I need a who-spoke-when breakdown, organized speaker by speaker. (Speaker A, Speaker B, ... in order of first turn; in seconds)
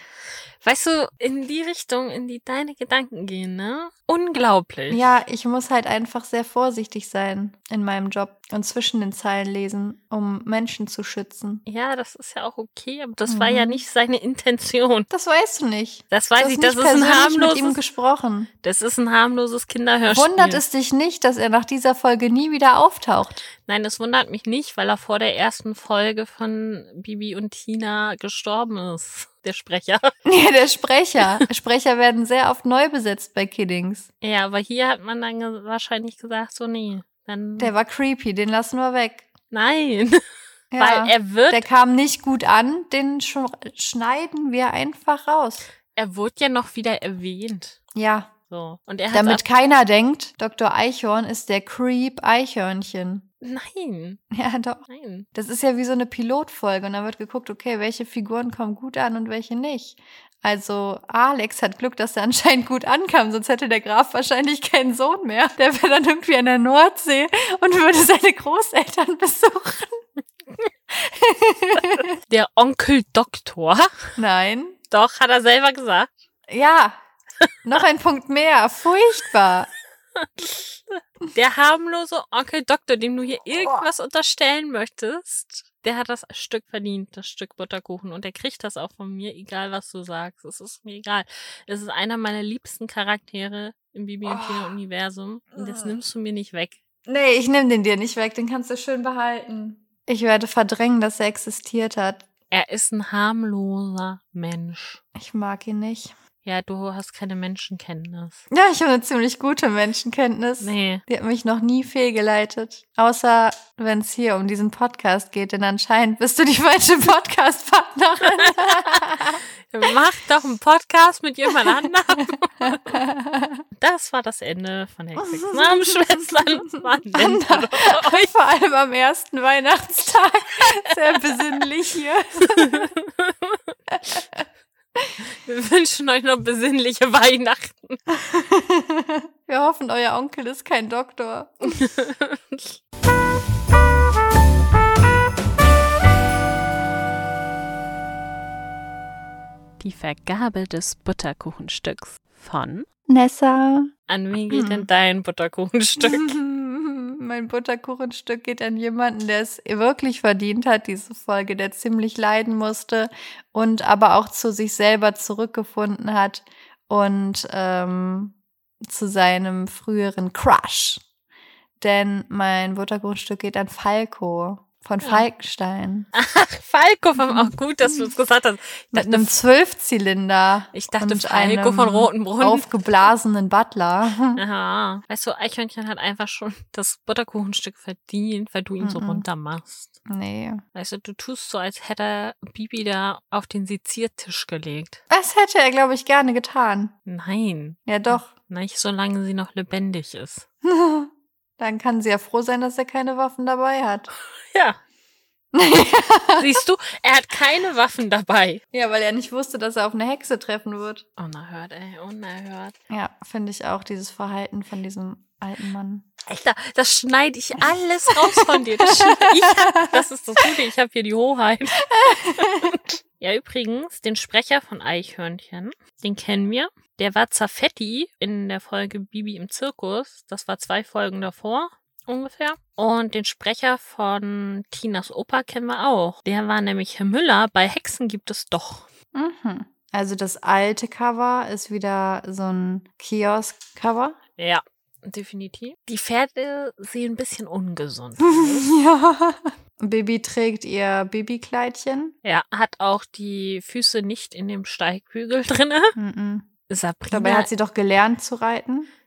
Speaker A: 0.6-5.1, 11.7-15.1, 16.1-17.8, 18.6-20.6, 23.6-30.1, 34.2-37.7, 39.5-40.2, 40.8-41.7, 46.0-47.8, 48.5-49.4, 53.4-54.2, 54.9-55.3, 72.3-73.9, 74.9-76.1, 80.2-96.8, 102.5-105.0, 106.5-108.5, 110.6-111.0, 118.3-123.0, 123.8-128.3, 132.6-133.6, 135.4-138.0, 141.7-142.8, 154.1-156.3, 176.1-179.3, 180.7-183.1, 184.4-190.0, 190.8-195.0, 197.1-200.5, 204.1-204.8, 206.4-208.6, 211.2-212.8, 216.3-238.9, 244.4-248.7, 252.2-256.0, 256.7-257.5
Speaker B: 4.9-11.6, 13.3-13.8, 15.1-18.5, 20.1-23.4, 30.2-34.1, 37.6-39.3, 40.7-45.6, 48.0-48.3, 49.1-53.2, 54.3-70.0, 70.9-72.1, 74.2-74.8, 76.5-77.0, 77.7-79.7, 94.2-94.8, 95.6-95.9, 97.1-102.3, 105.2-106.1, 108.5-119.4, 122.3-123.6, 125.2-132.9, 133.9-134.4, 138.1-141.9, 153.1-153.9, 154.5-154.9, 156.0-171.0, 171.8-176.1, 177.2-178.0, 178.9-184.4, 188.8-189.2, 190.1-190.6, 195.1-196.9, 197.9-198.3, 200.6-204.1, 205.5-206.6, 208.7-211.0, 212.9-216.1, 218.3-220.0, 221.9-222.8, 239.2-244.2, 248.2-252.1, 256.0-256.5, 257.1-258.9
Speaker C: 149.8-152.9